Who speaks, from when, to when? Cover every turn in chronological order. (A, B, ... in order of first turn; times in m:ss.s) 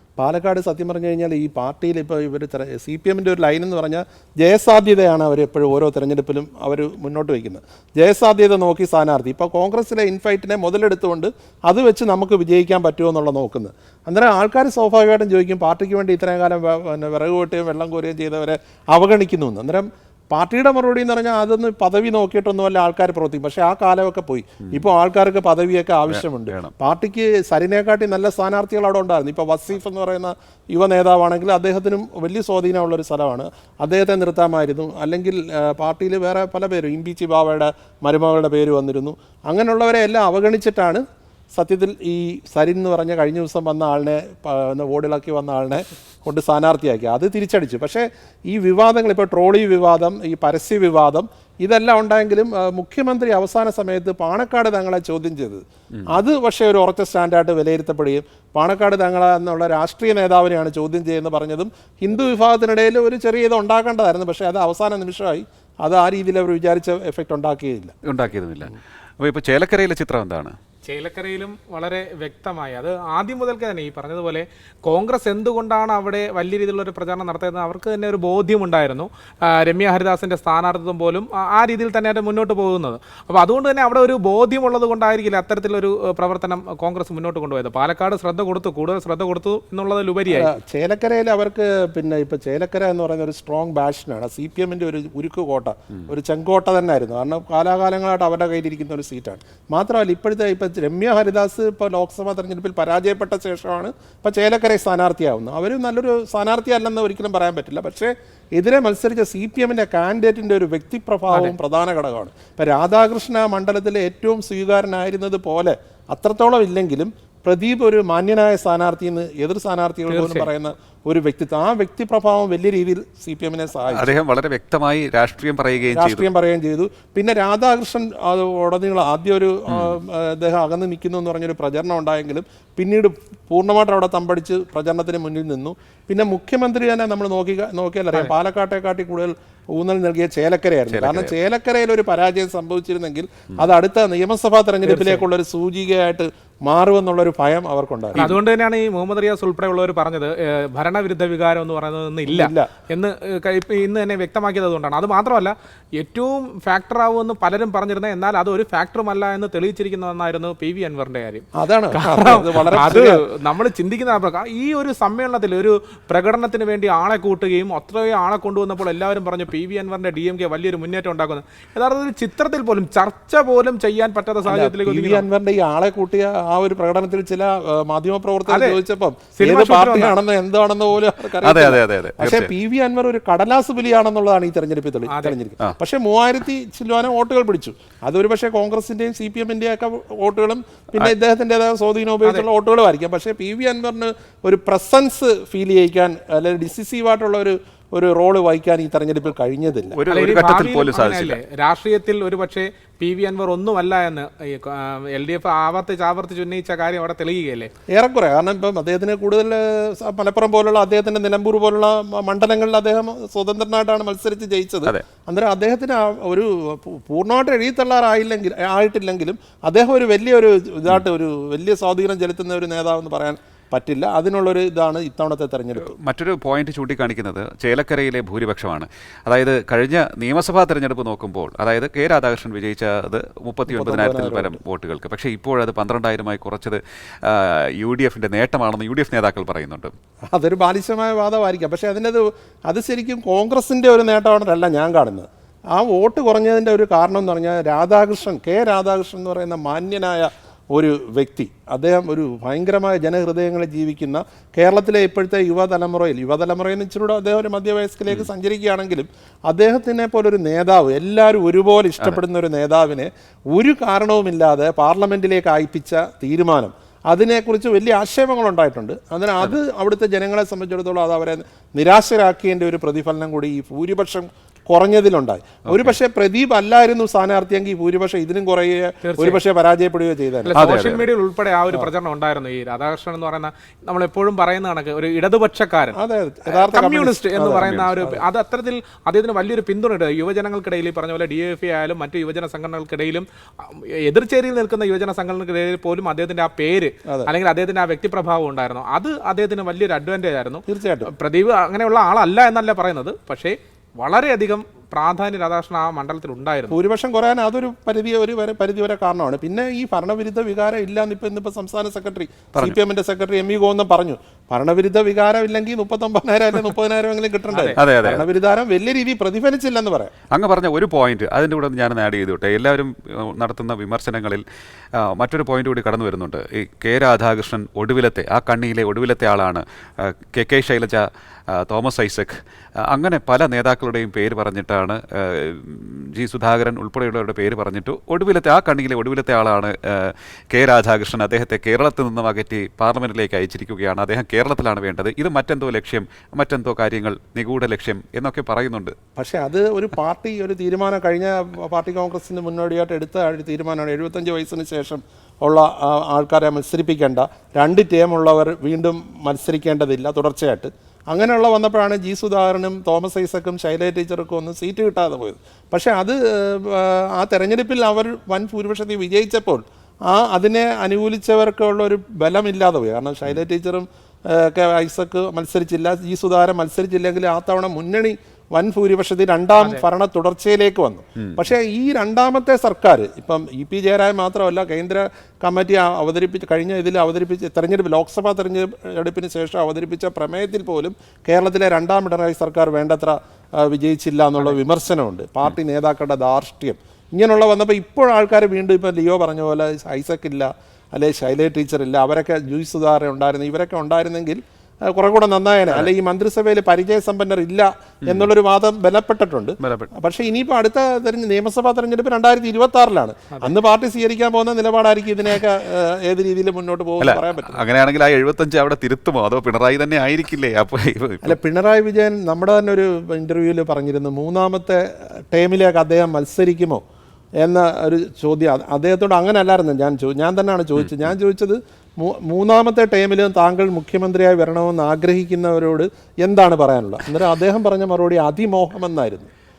0:00.2-1:07.9 A
0:26.1-0:26.7 B
0:55.9-0:56.2 B
1:08.0-1:10.5 B
1:10.8-1:30.5 C
1:30.3-2:04.1 A
1:51.3-1:51.6 C
2:00.1-2:00.5 C
2:03.9-2:06.3 B
2:05.9-2:28.3 A
2:09.7-2:10.0 B
2:20.9-2:21.3 B
2:24.8-2:25.2 C
2:28.1-2:55.2 C
2:32.3-2:32.7 A
2:41.6-2:43.2 A
2:54.4-3:20.0 A
2:58.5-2:58.8 C
2:59.4-3:00.1 C
3:01.4-3:02.5 B
3:05.1-3:05.4 C
3:19.9-3:21.4 B
3:20.1-3:27.7 C
3:27.9-3:45.9 A
3:45.8-3:59.9 B
3:53.7-3:54.6 A
4:00.3-4:40.5 A
4:35.7-4:36.0 B
4:39.0-4:39.4 C
4:40.4-4:46.0 C
4:40.5-4:41.1 B
4:46.0-4:48.2 A
4:46.5-5:06.8 C
4:47.6-4:48.0 B
5:00.7-5:01.1 A
5:06.7-5:20.1 A
5:17.5-5:18.2 C
5:17.8-5:18.3 B
5:20.3-5:24.4 B
5:24.9-5:49.0 B
5:49.2-6:57.6 A
6:19.6-6:19.8 C
6:21.2-6:21.4 B
6:48.0-6:48.3 B
6:49.6-6:49.9 B
6:57.0-7:01.4 B
7:01.2-7:06.8 A
7:07.4-7:19.3 A